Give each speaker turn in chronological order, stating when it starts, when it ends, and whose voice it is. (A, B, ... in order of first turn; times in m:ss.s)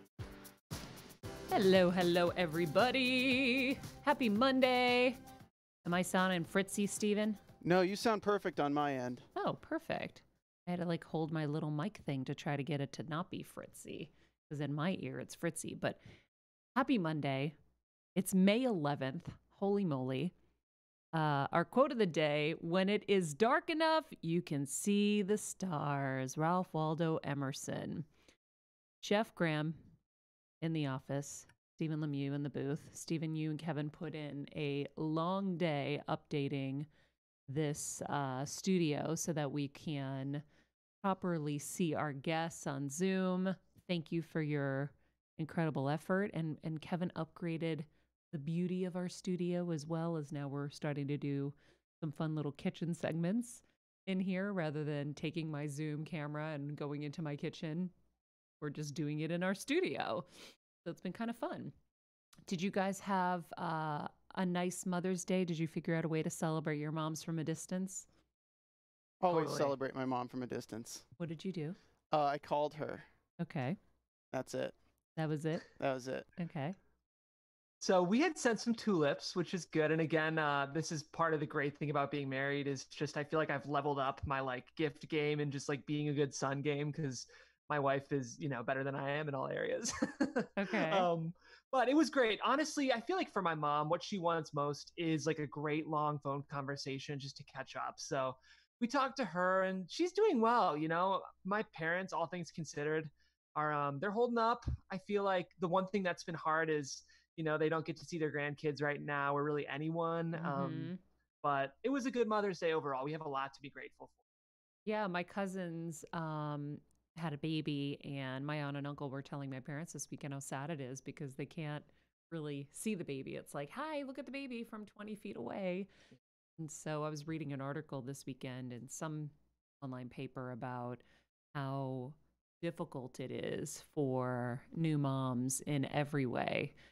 0:01.5-0:05.2 A
0:05.8-0:07.4 A
0:07.6-0:09.2 B
0:09.4-0:16.0 A
0:16.7-0:17.6 A
0:18.1-0:20.3 A
0:21.1-0:28.1 A
0:29.0-0:29.8 A
0:30.6-0:36.9 A
0:37.5-0:40.4 A
0:41.0-0:57.9 A
0:58.6-1:00.3 A
1:00.8-1:01.7 A
1:02.5-1:08.1 A
1:09.2-1:11.0 B
1:09.3-1:09.7 C
1:11.2-1:11.8 A
1:12.1-1:13.0 B
1:13.4-1:13.8 A
1:14.3-1:14.8 B
1:15.2-1:15.6 A
1:15.8-1:16.3 B
1:16.4-1:16.8 A
1:17.8-1:50.9 C
1:30.6-1:31.1 A
1:50.3-1:51.0 A
1:51.4-1:54.2 C
1:54.8-2:05.9 A
2:06.6-2:11.0 A
2:11.5-2:16.7 A